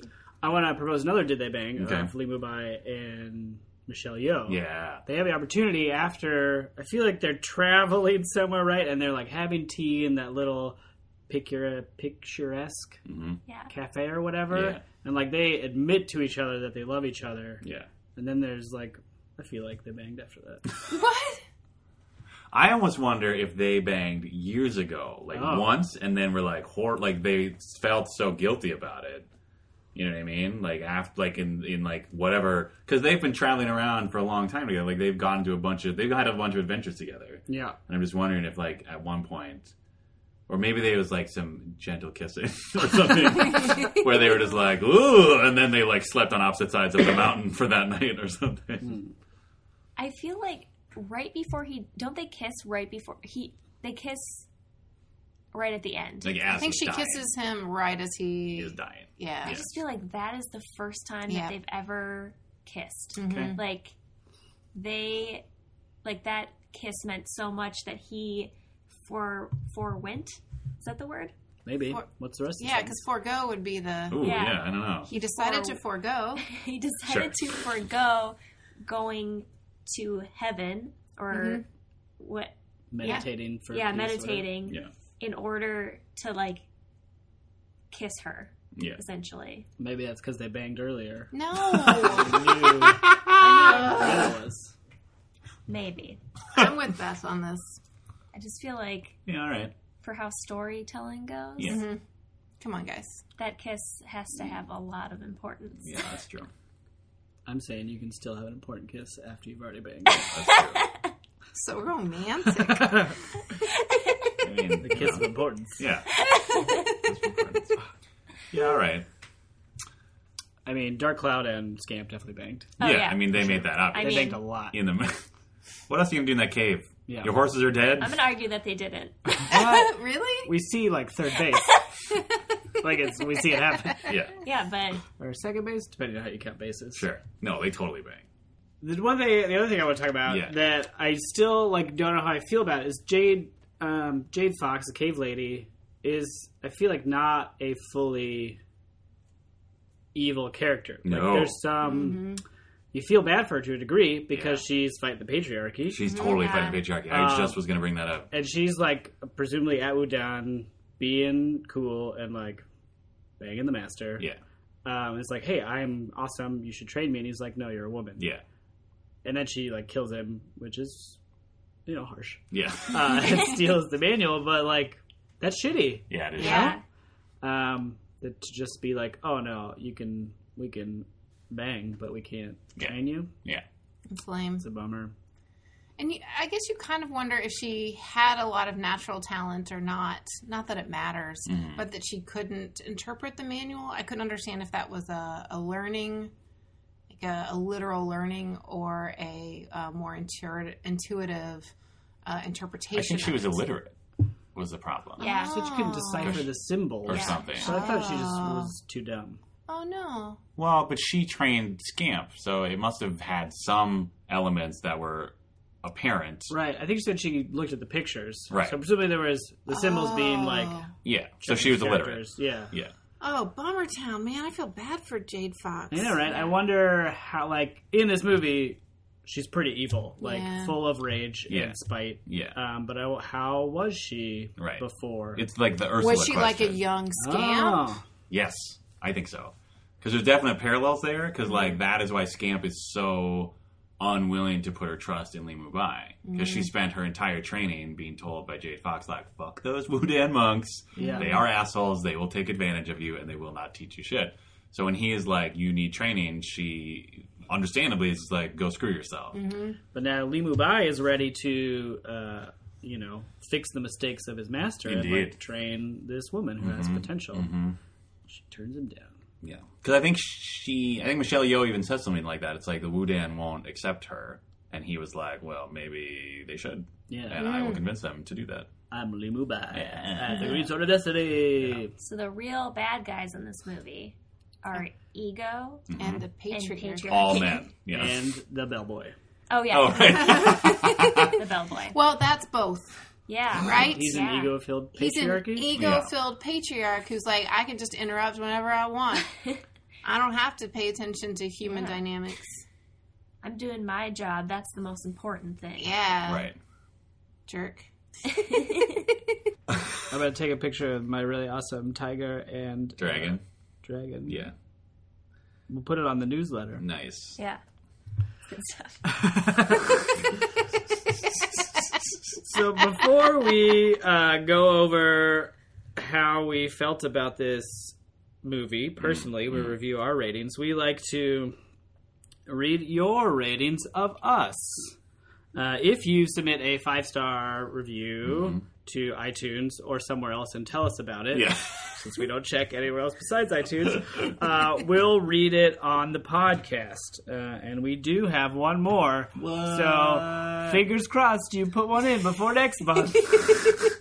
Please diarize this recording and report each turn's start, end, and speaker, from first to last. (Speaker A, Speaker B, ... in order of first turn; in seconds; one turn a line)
Speaker A: 0.4-10.8
Speaker B: 1.8-2.1
Speaker B: 4.5-5.0
Speaker A: 11.3-13.0
Speaker B: 13.1-13.4
Speaker A: 13.7-20.7
Speaker B: 14.5-14.8
Speaker B: 17.6-17.9
Speaker C: 20.9-21.4
Speaker B: 22.5-29.3
Speaker A: 25.3-25.8
Speaker B: 29.9-39.7
Speaker A: 37.5-37.8
Speaker B: 40.5-49.0
Speaker A: 48.8-49.1
Speaker D: 50.0-54.5
Speaker D: 55.5-56.4
Speaker B: 56.2-57.3
Speaker C: 56.5-59.6
Speaker B: 58.5-59.7
Speaker D: 59.4-63.9
Speaker C: 61.3-61.5
Speaker C: 63.2-63.6
Speaker D: 64.7-65.4
Speaker D: 66.0-68.5
Speaker D: 69.0-71.3
Speaker A: 71.7-73.0
Speaker C: 72.6-74.2
Speaker B: 74.1-75.1
Speaker D: 74.2-74.6
Speaker C: 75.1-76.4
Speaker D: 75.3-75.8
Speaker D: 76.4-81.7
Speaker B: 77.1-77.5
Speaker C: 81.3-81.6
Speaker D: 82.2-86.6
Speaker A: 82.9-84.5
Speaker D: 87.9-89.7
Speaker B: 88.8-89.0
Speaker A: 89.8-93.0
Speaker C: 91.3-94.3
Speaker D: 93.4-94.2
Speaker A: 93.6-94.7
Speaker D: 95.7-96.2
Speaker C: 96.5-97.8
Speaker D: 98.3-99.2
Speaker B: 99.3-99.7
Speaker D: 100.0-101.8
Speaker B: 101.6-101.8
Speaker C: 101.6-102.0
Speaker C: 102.6-103.2
Speaker D: 103.4-106.0
Speaker B: 105.8-106.5
Speaker A: 107.5-110.3
Speaker B: 110.3-110.8
Speaker D: 110.5-110.9
Speaker C: 111.5-113.1
Speaker A: 112.6-113.2
Speaker B: 114.4-116.1
Speaker A: 114.8-115.8
Speaker D: 116.2-117.0
Speaker B: 116.9-117.8
Speaker B: 118.5-119.1
Speaker A: 120.7-122.8
Speaker D: 122.8-124.4
Speaker B: 122.8-125.2
Speaker A: 123.3-124.8
Speaker B: 125.9-128.2
Speaker A: 127.1-127.4
Speaker D: 128.0-129.4
Speaker A: 129.3-131.8
Speaker C: 129.5-130.5
Speaker A: 132.8-134.1
Speaker B: 134.0-134.4
Speaker D: 134.4-135.0
Speaker A: 135.2-137.1
Speaker B: 136.9-138.2
Speaker A: 138.8-148.6
Speaker B: 140.3-140.6
Speaker A: 150.1-152.3
Speaker B: 151.1-151.6
Speaker C: 151.8-152.4
Speaker A: 152.9-156.2
Speaker B: 154.3-154.6
Speaker B: 155.9-158.3
Speaker C: 156.1-156.4
Speaker D: 156.2-156.8
Speaker A: 157.1-157.6
Speaker A: 158.3-162.6
Speaker A: 163.4-164.3
Speaker A: 164.8-168.3
Speaker A: 169.2-171.2
Speaker A: 171.9-176.8
Speaker B: 172.5-173.2
Speaker B: 176.1-176.8
Speaker D: 176.4-176.8
Speaker C: 176.4-176.8
Speaker A: 177.4-183.3
Speaker B: 182.8-183.7
Speaker C: 184.1-184.7
Speaker A: 184.6-185.1
Speaker C: 186.0-196.3
Speaker B: 191.5-191.8
Speaker C: 197.1-201.7
Speaker C: 202.2-203.6
Speaker B: 202.9-203.9
Speaker B: 204.6-205.3
Speaker D: 205.2-205.6
Speaker C: 205.2-206.4
Speaker A: 205.3-209.4
Speaker B: 206.2-206.4
Speaker B: 207.1-207.9
Speaker D: 207.1-207.4
Speaker C: 207.6-208.7
Speaker C: 209.7-210.4
Speaker B: 210.6-216.5
Speaker A: 216.5-220.8
Speaker B: 218.5-218.8
Speaker C: 219.7-220.9
Speaker B: 221.1-222.9
Speaker A: 221.4-222.7
Speaker C: 223.2-226.5
Speaker A: 225.9-235.4
Speaker C: 230.2-230.8
Speaker B: 231.5-232.6
Speaker B: 234.6-234.8
Speaker B: 235.3-236.8
Speaker C: 236.0-237.8
Speaker A: 237.2-238.1
Speaker B: 238.3-259.4
Speaker C: 241.5-241.8
Speaker C: 246.2-246.7
Speaker A: 251.0-251.4
Speaker C: 251.0-251.4
Speaker C: 259.3-259.8
Speaker A: 259.9-267.5
Speaker B: 264.9-265.4
Speaker B: 266.6-267.8
Speaker A: 268.3-269.2
Speaker B: 269.4-278.7
Speaker A: 277.1-277.4
Speaker C: 277.4-277.8
Speaker A: 278.9-281.9
Speaker B: 279.7-280.7
Speaker D: 282.0-285.9
Speaker B: 285.9-286.2
Speaker C: 286.0-287.6
Speaker D: 286.5-287.6
Speaker B: 287.1-288.2
Speaker A: 287.9-289.1
Speaker D: 289.5-290.7
Speaker B: 289.7-291.4
Speaker C: 290.1-291.3
Speaker D: 291.2-292.0
Speaker C: 291.9-293.0
Speaker D: 293.3-294.5
Speaker C: 293.6-294.3
Speaker A: 293.7-295.7
Speaker C: 294.9-299.5
Speaker B: 295.7-296.1
Speaker C: 300.0-302.6
Speaker D: 301.6-302.0
Speaker D: 303.4-306.0
Speaker C: 305.8-306.5
Speaker B: 306.3-306.6
Speaker C: 307.5-307.9
Speaker D: 308.3-309.0
Speaker A: 310.1-314.5
Speaker B: 313.0-313.4
Speaker B: 314.3-314.5
Speaker A: 315.7-316.8
Speaker B: 316.8-317.4
Speaker D: 318.5-319.0
Speaker A: 319.1-319.9
Speaker A: 322.4-331.6
Speaker B: 329.0-329.7
Speaker A: 332.5-335.0
Speaker A: 335.5-353.6
Speaker B: 338.3-338.6
Speaker B: 341.3-342.0
Speaker B: 349.4-350.8